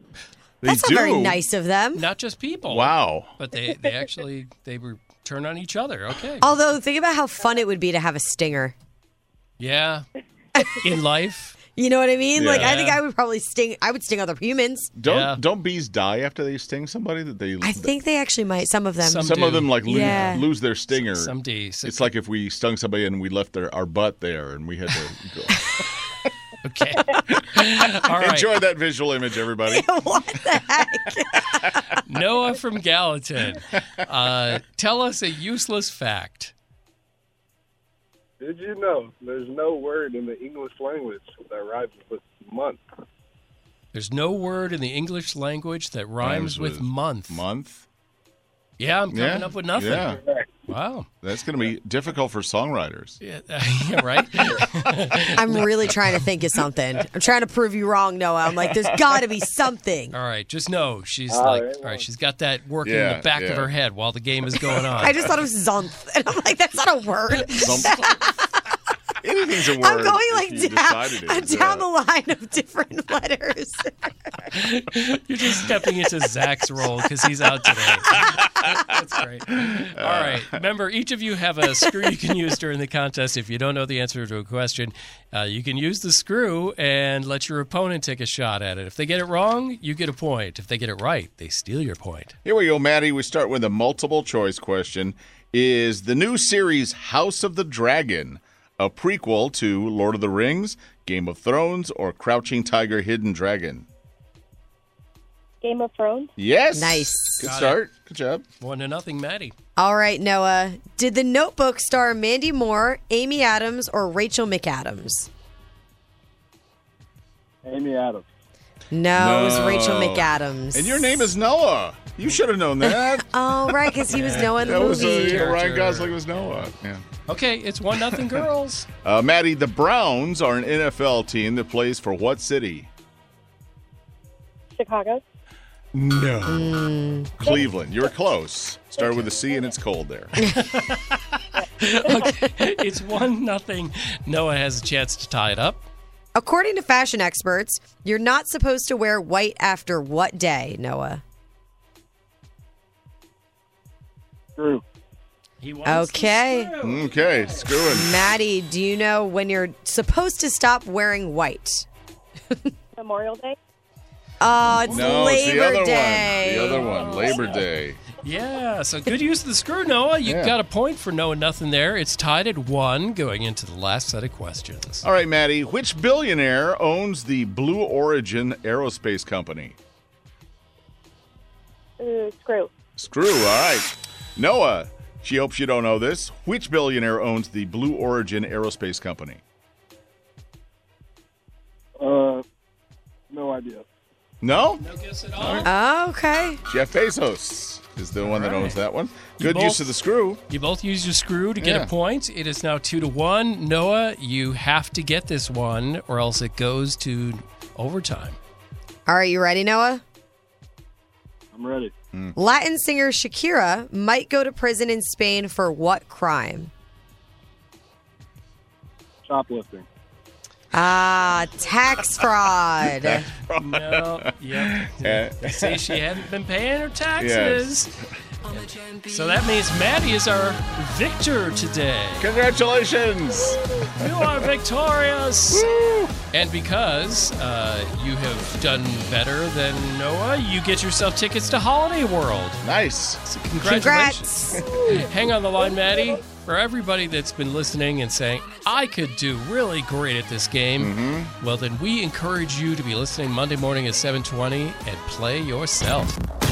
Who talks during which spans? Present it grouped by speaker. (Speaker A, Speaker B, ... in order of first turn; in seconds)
Speaker A: 0.6-1.4, 2.7-3.3, 12.4-12.8, 15.0-17.9, 19.2-21.3, 21.8-25.7, 27.3-29.9, 46.2-47.9, 49.1-50.2, 51.2-53.2, 58.6-59.2, 62.9-63.7, 67.5-68.0, 69.2-71.9, 79.5-80.6, 92.5-103.9, 106.4-108.4, 119.1-127.0, 129.0-132.9, 135.9-136.8, 137.4-140.4, 156.8-158.2, 164.9-168.0, 170.2-170.6, 175.0-179.8, 183.0-189.4, 194.4-194.8, 195.4-195.7, 196.7-200.4, 201.6-201.9, 223.0-226.0, 227.2-227.7, 232.2-234.4, 235.5-236.2, 242.6-243.2, 250.8-251.3
Speaker B: 0.7-2.0, 6.4-8.8, 11.8-14.9, 17.6-20.4, 29.7-32.0, 55.4-60.1, 65.0-68.5, 69.8-74.3, 106.8-107.4, 109.8-115.3, 118.9-121.3, 122.9-125.5, 136.5-137.3, 146.4-151.2, 155.9-156.7, 157.8-161.9, 164.4-166.9, 195.6-196.6, 209.1-210.0, 212.4-216.7, 220.7-223.3, 243.6-244.7
Speaker C: 1.9-6.5, 9.6-10.1, 10.8-11.6, 12.5-13.0, 15.0-15.4, 19.0-22.1, 26.6-28.5, 32.0-36.5, 43.9-47.4, 48.8-51.1, 53.2-55.9, 60.1-65.2, 67.6-67.9, 74.5-92.3, 107.4-107.8, 108.6-109.5, 124.1-126.7, 127.3-128.9, 140.4-145.9, 155.6-157.7, 167.0-167.4, 168.2-175.1, 194.8-195.7, 198.2-198.8, 199.4-199.9, 200.5-208.4, 223.5-227.9, 228.5-232.3, 234.0-235.6, 236.3-242.6, 243.2-256.2
Speaker D: 38.4-42.8, 50.1-50.5, 61.3-62.1, 117.7-118.3, 154.6-154.8, 192.0-192.4, 193.3-193.9, 211.5-211.9, 219.2-219.9
Speaker E: 105.6-106.3, 134.8-135.2, 141.6-142.1, 163.0-163.6, 182.0-182.7